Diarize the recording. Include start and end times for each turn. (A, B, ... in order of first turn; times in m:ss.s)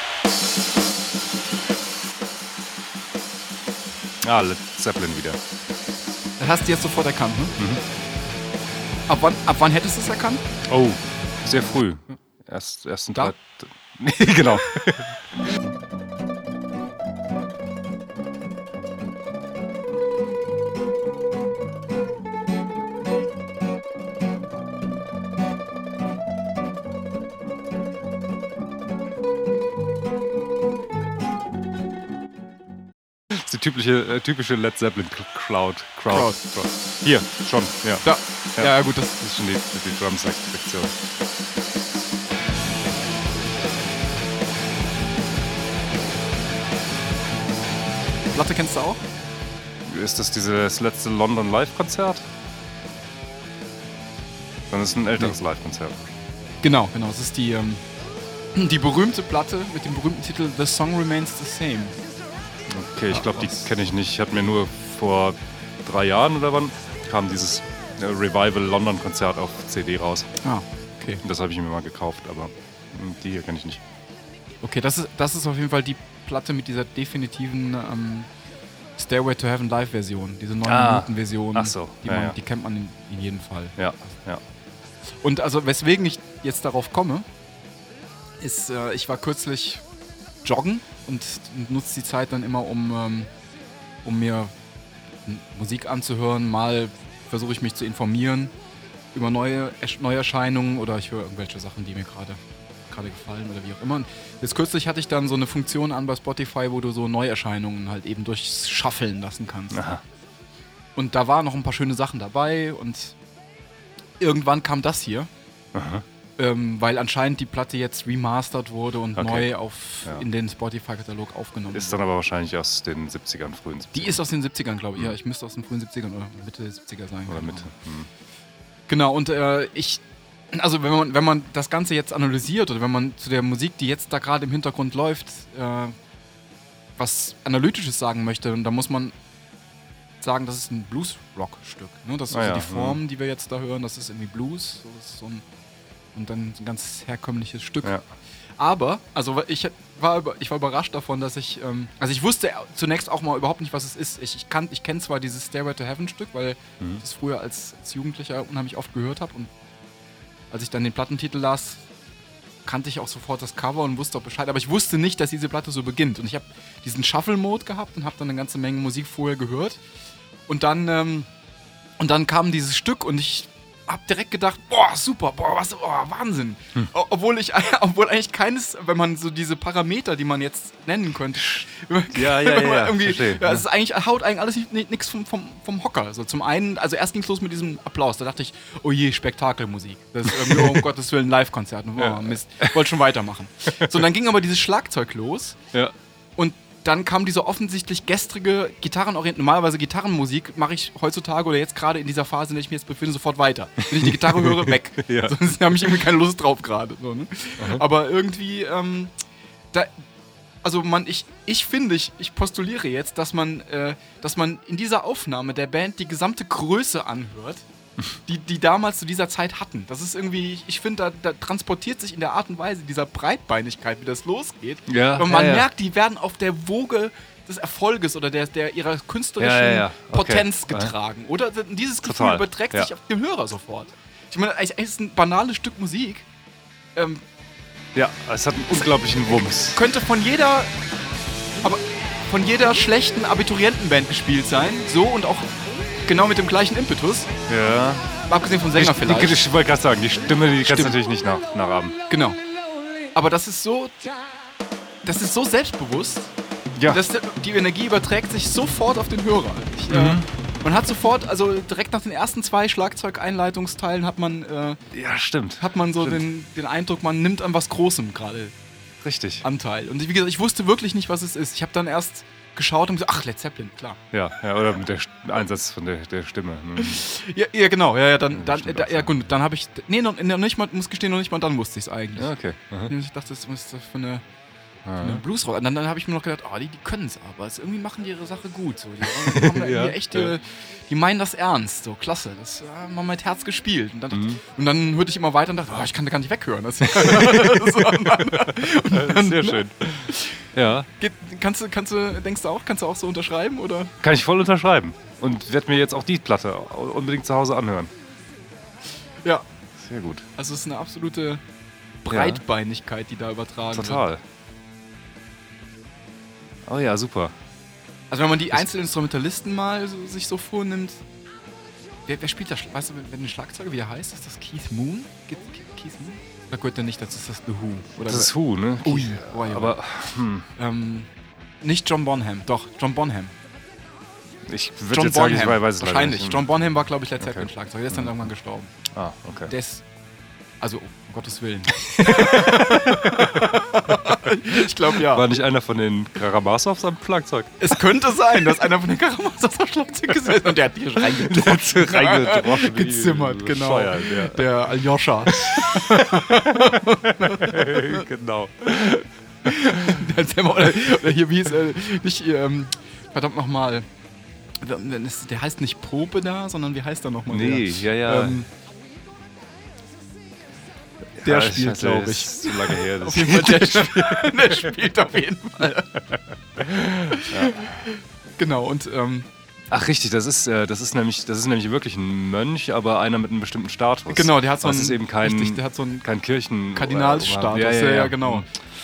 0:04.2-0:05.4 A
0:06.4-0:07.6 B
0:09.1-0:10.4 B
0:10.7-0:15.1 A
0:33.3-0:40.9 A
0:36.1-0:36.4 B
0:38.0-0:39.2 B
0:48.3-0:49.0 B
0:49.8-0:52.2 A
0:54.7-0:56.0 A
0:56.6-0:57.8 B
0:58.5-1:02.0 B
1:02.7-1:10.3 A
1:03.1-1:03.6 B
1:10.4-1:11.2 B
1:11.2-1:13.8 A
1:14.6-1:18.3 B
1:19.0-1:23.8 B
1:20.6-1:22.3 A
1:23.8-1:24.4 A
1:25.2-1:27.2 B
1:28.4-1:29.8 B
1:30.4-1:33.3 B
1:34.0-1:34.5 B
1:35.2-1:38.5 B
1:39.1-1:49.8 B
1:49.7-1:50.0 A
1:51.0-1:53.2 B
1:54.2-1:55.3 B
1:55.7-1:56.0 A
1:56.4-2:02.0 B
1:59.2-1:59.5 A
2:01.7-2:04.2 A
2:03.9-2:07.7 B
2:07.3-2:08.1 A
2:08.9-2:15.9 B
2:17.0-2:19.1 B
2:20.2-2:25.4 B
2:22.3-2:23.0 A
2:26.1-2:28.0 B
2:28.6-2:39.5 B
2:40.5-2:41.8 B
2:42.6-2:49.8 B
2:50.5-2:51.3 B
2:52.0-3:15.6 B
3:02.1-3:03.6 A
3:10.4-3:10.8 A
3:12.0-3:12.8 A
3:16.4-3:29.1 B
3:23.9-3:25.9 A
3:30.6-3:37.6 B
3:38.2-3:56.3 B
3:44.9-3:45.7 A
3:49.4-3:50.9 A
3:52.0-3:52.9 A
3:56.9-3:57.2 B
3:57.9-3:59.8 A
3:59.6-4:00.7 B
4:01.6-4:07.3 B
4:07.5-4:08.1 A
4:08.3-4:09.4 B
4:08.8-4:12.0 A
4:10.6-4:11.0 B
4:12.1-4:12.4 B
4:13.1-4:14.1 B
4:15.0-4:16.3 B
4:16.8-4:17.0 A
4:16.9-4:24.8 B
4:19.9-4:20.3 A
4:24.9-4:26.2 A
4:25.6-4:28.5 B
4:29.0-4:29.4 A
4:29.4-4:34.0 B
4:34.1-4:37.0 A
4:36.8-4:42.3 B
4:38.3-4:39.1 A
4:42.2-4:42.9 A
4:42.8-4:44.2 B
4:44.8-4:45.2 A
4:45.0-5:03.9 B
4:49.1-4:50.3 A
4:54.1-4:54.4 A
4:56.8-5:00.9 A
5:04.0-5:07.9 A
5:09.8-5:10.2 A
5:10.4-5:11.4 B
5:12.0-5:14.1 B
5:12.1-5:12.4 A
5:13.7-5:14.2 A
5:16.7-5:17.3 A
5:18.1-5:21.0 B
5:22.1-5:28.3 B
5:28.0-5:30.5 A
5:28.8-5:29.8 B
5:30.5-5:31.1 B
5:31.6-5:33.3 B
5:34.4-5:36.4 A
5:34.9-5:38.7 B
5:37.2-5:37.5 A
5:38.9-5:39.5 A
5:39.5-5:39.8 B
5:40.6-5:45.3 B
5:41.9-5:43.5 A
5:44.9-5:47.6 A
5:47.6-5:58.0 B
5:51.0-5:54.7 A
5:55.3-5:59.0 A
5:59.4-6:03.8 B
5:59.6-6:00.0 A
6:04.6-6:08.5 B
6:07.3-6:08.4 A
6:11.2-6:14.7 A
6:11.2-6:16.0 B
6:16.6-6:17.8 A
6:16.9-6:19.3 B
6:19.7-6:28.4 A
6:24.1-6:26.1 B
6:26.7-6:28.5 B